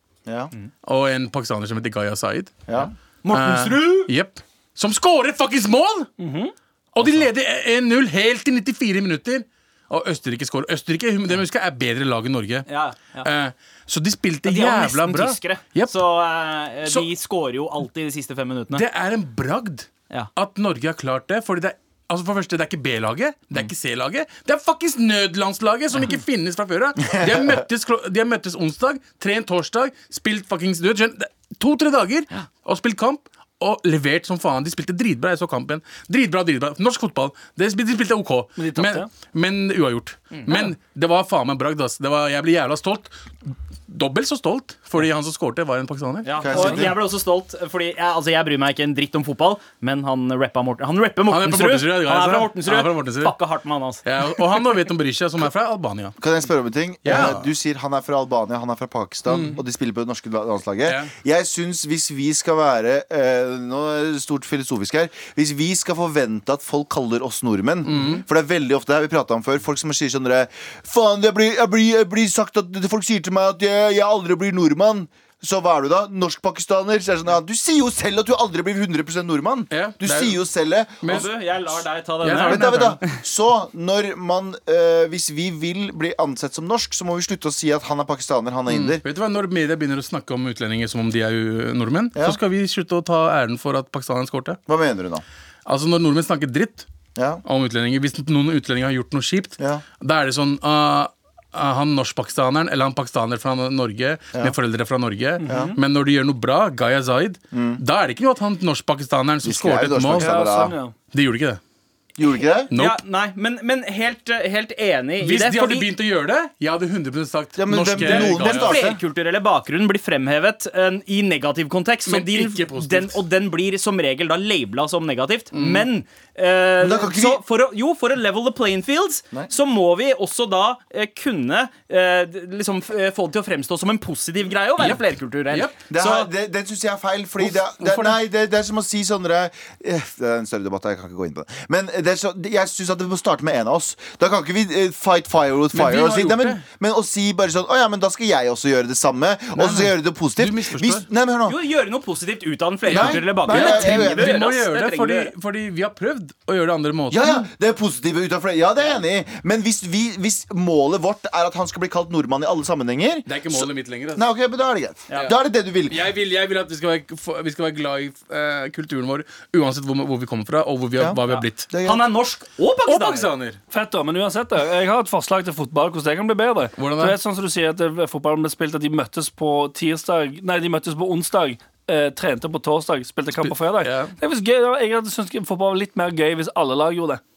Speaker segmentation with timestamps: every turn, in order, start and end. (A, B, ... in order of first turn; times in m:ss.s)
0:00.2-0:00.5 A
0:00.8-0:02.6 B
0:02.8-0:04.1 C
0:03.3-0:06.1 B
0:06.2-0:06.5 D
0:06.9-0:12.7 B
0:12.7-0:13.3 C
0:13.2-0:16.0 B
0:14.4-0:18.8 C
0:18.7-0:46.8 B
0:27.2-0:27.6 A
0:38.6-0:39.1 D
0:40.3-0:40.6 C
0:46.2-0:54.0 C
0:46.4-0:46.9 A
0:46.5-0:46.9 D
0:51.3-0:53.3 B
0:54.0-0:56.2 B
0:56.2-1:21.3 A
0:57.0-0:57.4 B
0:59.3-0:59.6 B
1:00.8-1:01.1 B
1:07.8-1:08.2 B
1:19.7-1:20.4 B
1:21.0-1:21.3 B
1:21.1-1:23.2 C
1:22.2-1:23.0 B
1:22.4-1:29.0 A
1:28.7-1:34.6 B
1:34.7-1:35.2 A
1:35.6-1:36.8 B
1:37.2-1:37.4 A
1:37.4-1:50.5 B
1:45.4-1:45.7 D
1:45.4-1:45.7 A
1:47.5-1:47.8 A
1:49.4-1:50.8 A
1:50.2-1:50.9 D
1:51.1-1:51.6 B
1:52.2-1:52.7 A
1:52.7-1:55.9 C
1:52.7-1:53.0 B
1:55.2-1:58.8 B
1:57.6-1:59.0 A
1:58.0-2:16.3 C
2:02.1-2:03.2 B
2:05.5-2:05.9 B
2:06.8-2:07.4 A
2:14.8-2:15.7 B
2:15.9-2:31.6 A
2:17.4-2:18.2 B
2:25.7-2:26.6 B
2:29.6-2:31.0 B
2:31.4-2:35.3 C
2:32.9-2:34.4 A
2:32.9-2:37.2 B
2:37.1-2:46.0 A
2:43.3-2:44.2 B
2:45.9-2:51.7 B
2:51.0-2:52.0 A
2:51.3-2:53.3 C
2:52.8-2:53.6 B
2:53.7-3:07.2 D
2:56.8-2:57.2 B
3:03.3-3:04.1 B